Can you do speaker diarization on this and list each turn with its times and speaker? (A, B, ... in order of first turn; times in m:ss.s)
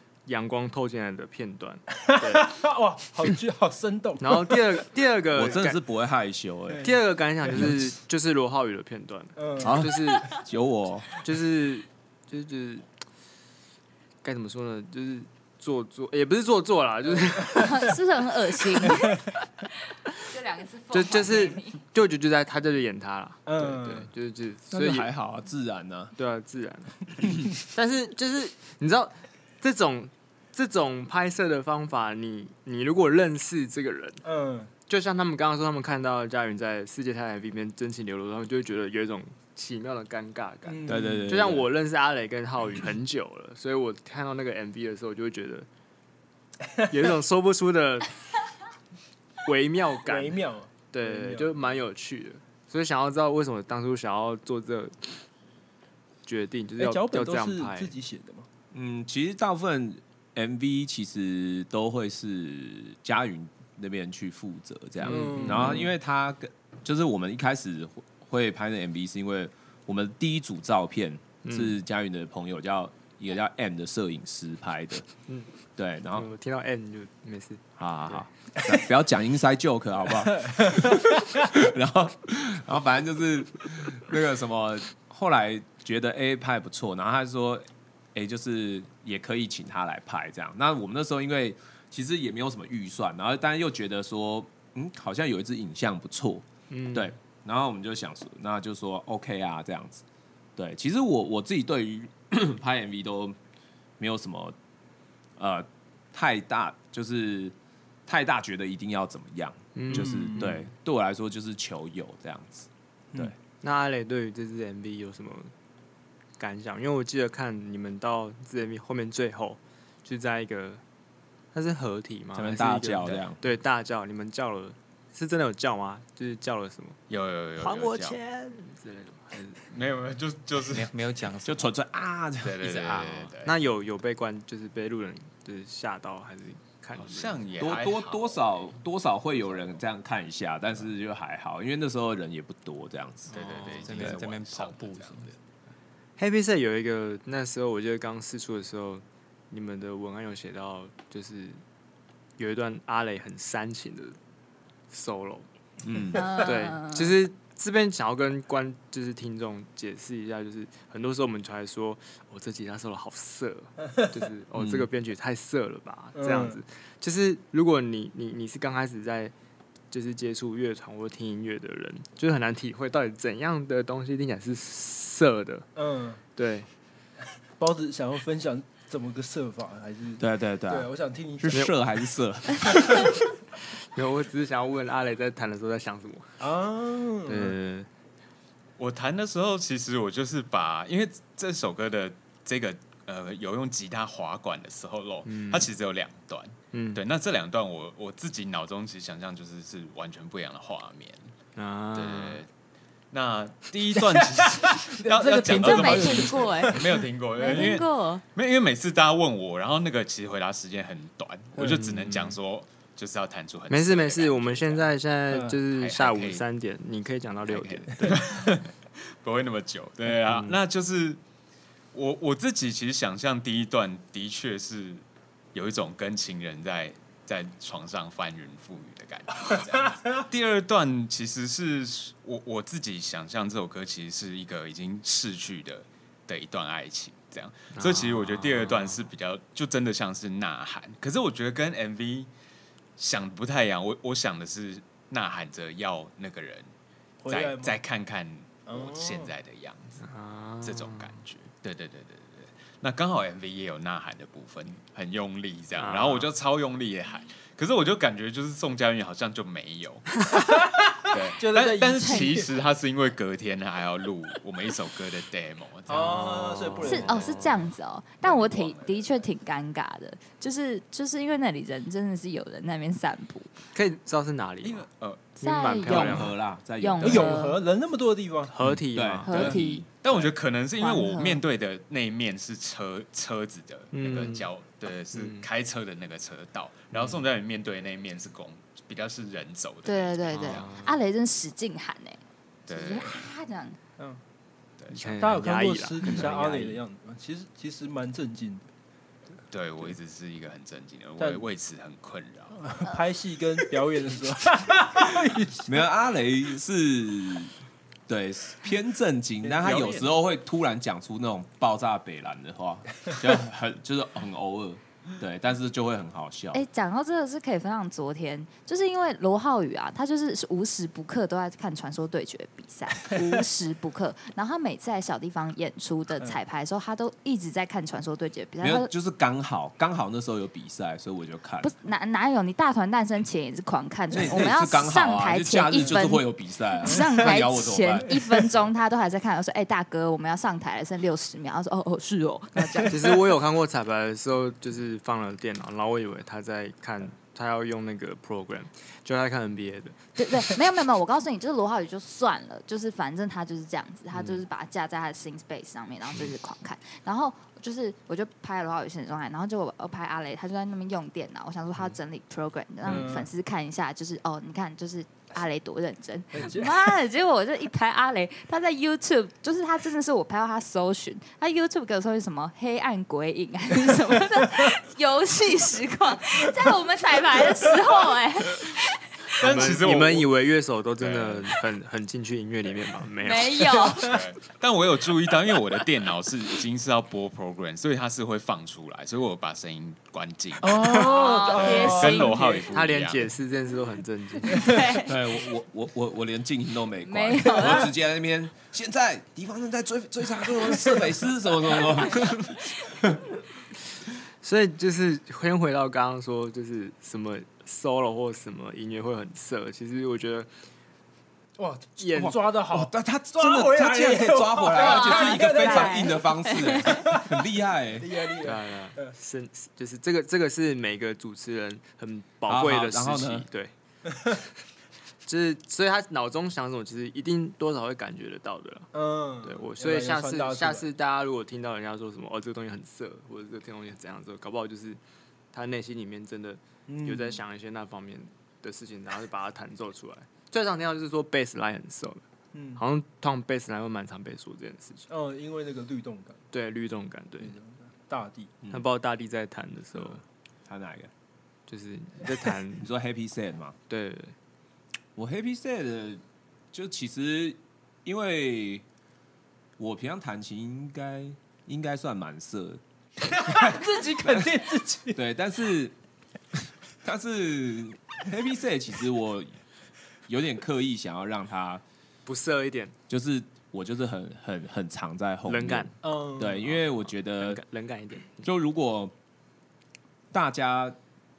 0:00.2-0:02.5 A
0:01.9-0:04.8 B
0:04.2-0:05.8 A
0:05.3-0:06.9 C
0:06.7-0:06.9 B
0:06.8-0:10.4 A
0:09.4-0:09.8 B
0:09.6-0:11.1 C
0:11.2-0:12.8 A
0:14.2-0:18.0 A
0:17.6-0:19.2 D
0:20.2-0:21.8 D
0:20.9-0:25.1 A
0:23.4-0:24.1 B
0:24.7-0:26.1 C
0:26.2-0:34.2 A
0:34.2-0:34.7 B
0:34.9-0:45.7 A
0:40.6-0:41.3 B
0:40.8-0:41.7 C
0:46.9-0:48.2 A
0:49.4-0:55.2 A
0:50.0-0:51.6 B
0:56.2-0:57.9 A
0:56.8-0:58.5 B
0:58.7-1:15.1 C
1:05.0-1:05.9 A
1:05.0-1:05.9 B
1:11.4-1:11.8 A
1:15.8-1:16.3 C
1:16.1-1:18.3 A
1:17.8-1:40.0 C
1:20.4-1:21.0 B
1:36.7-1:37.1 A
1:40.6-1:43.4 C
1:44.0-1:44.6 C
1:45.4-1:47.5 C
1:48.1-1:53.3 C
1:49.8-1:50.6 A
1:49.9-1:50.6 B
1:53.6-1:55.5 A
1:56.4-2:00.8 A
2:01.5-2:07.0 A
2:02.3-2:03.4 C
2:07.1-2:08.2 E
2:07.6-2:09.6 A
2:09.7-2:10.9 E
2:10.7-2:11.7 F
2:11.4-2:12.8 C
2:12.4-2:13.6 E
2:12.6-2:13.3 F
2:13.4-2:17.4 A
2:17.0-2:18.6 E
2:17.6-2:23.3 C
2:23.3-2:25.2 E
2:23.3-2:24.1 A
2:23.4-2:25.4 F
2:26.2-2:31.6 A
2:32.4-2:34.2 A
2:34.9-2:35.4 A
2:35.8-2:36.3 C
2:36.1-2:37.1 D
2:36.4-2:49.3 A
2:44.5-2:44.9 C
2:46.2-2:46.6 B
2:49.9-2:55.7 A
2:55.8-2:56.2 B
2:56.4-2:56.7 A
2:57.6-3:01.7 B
3:00.2-3:00.9 C
3:01.4-3:03.2 C
3:01.5-3:01.8 A
3:02.6-3:03.0 A
3:03.9-3:06.4 A
3:06.4-3:07.6 B
3:07.2-3:07.9 A
3:08.8-3:21.3 E
3:15.2-3:15.7 A
3:16.7-3:17.0 A
3:21.6-3:22.4 A
3:21.9-3:22.5 E
3:23.1-3:34.9 E
3:24.1-3:27.8 B
3:25.4-3:28.2 D
3:31.6-3:31.9 B
3:31.6-3:32.4 A
3:33.7-3:38.5 A
3:35.3-3:35.6 B
3:35.7-3:36.4 E
3:37.4-3:41.2 E
3:40.1-3:40.6 A
3:41.9-4:02.3 E
3:57.7-3:59.0 A
4:03.0-4:06.7 E
4:07.2-4:07.8 B
4:07.3-4:10.0 E
4:08.6-4:09.3 B
4:10.0-4:11.2 A
4:10.6-4:20.2 E
4:15.8-4:16.3 A
4:20.4-4:22.5 B
4:21.1-4:26.4 E
4:22.0-4:22.4 D
4:25.9-4:27.4 B
4:26.0-4:27.6 A
4:26.8-4:33.5 D
4:28.2-4:29.1 E
4:33.7-4:34.9 A
4:34.6-4:35.4 E
4:35.4-4:36.3 A
4:35.4-4:37.6 D
4:35.8-4:37.4 C
4:37.0-4:38.5 B
4:38.5-4:39.6 A
4:38.7-4:40.2 C
4:39.2-4:39.9 D
4:39.9-4:50.8 E
4:40.8-4:41.4 D
4:43.9-4:44.5 A
4:45.1-4:45.4 A
4:46.9-4:47.2 A
4:49.8-4:53.8 D
4:50.3-4:50.9 A
4:52.7-4:53.2 E
4:54.8-4:55.2 E
4:54.9-4:56.8 A
4:55.2-4:58.6 B
4:59.5-5:02.6 E
5:01.2-5:01.4 B
5:02.6-5:05.8 B
5:05.6-5:07.5 C
5:08.1-5:16.6 C
5:09.6-5:10.1 E
5:16.5-5:28.9 D
5:28.6-5:31.7 C
5:31.6-5:36.2 D
5:34.1-5:38.3 C
5:36.8-5:43.1 D
5:42.6-5:43.2 B
5:42.9-5:50.0 A
5:50.2-6:18.8 D
5:54.1-5:54.4 A
6:02.8-6:03.3 B
6:06.3-6:06.8 B
6:19.4-6:20.3 E
6:19.4-6:23.9 A
6:21.0-6:21.6 E
6:23.2-6:24.2 D
6:23.9-6:33.3 E
6:30.6-6:32.7 B
6:30.8-6:32.6 D
6:32.7-6:34.7 A
6:34.5-6:35.2 D
6:35.0-6:42.8 C
6:37.0-6:37.9 D
6:44.4-6:50.5 A
6:51.6-6:56.2 B
6:52.0-6:52.4 A
6:52.2-6:58.1 C
6:54.7-6:57.0 D
6:56.8-6:57.4 B
6:58.0-6:59.1 B
6:58.4-7:03.7 A
7:02.5-7:03.4 C
7:05.2-7:08.9 A
7:08.9-7:10.9 B
7:09.4-7:15.0 A
7:15.5-7:22.2 A
7:16.9-7:17.4 B
7:22.5-7:22.8 B
7:22.8-7:25.0 A
7:25.1-7:26.4 B
7:26.5-7:27.6 A
7:27.4-7:28.5 B
7:28.7-7:30.2 A
7:30.7-7:31.1 C
7:31.7-7:32.9 A
7:32.8-7:33.8 C
7:33.9-7:34.3 A
7:35.2-7:38.8 C
7:39.8-7:42.8 C
7:43.3-7:45.2 B
7:43.4-7:44.6 C
7:45.1-7:45.9 C
7:46.6-7:49.6 C
7:50.3-7:51.8 C
7:52.2-7:52.9 A
7:53.1-7:57.6 C
7:55.5-7:56.0 A
7:56.0-7:56.6 B
7:56.6-7:58.5 A
7:58.4-7:59.1 C
8:00.3-8:01.0 C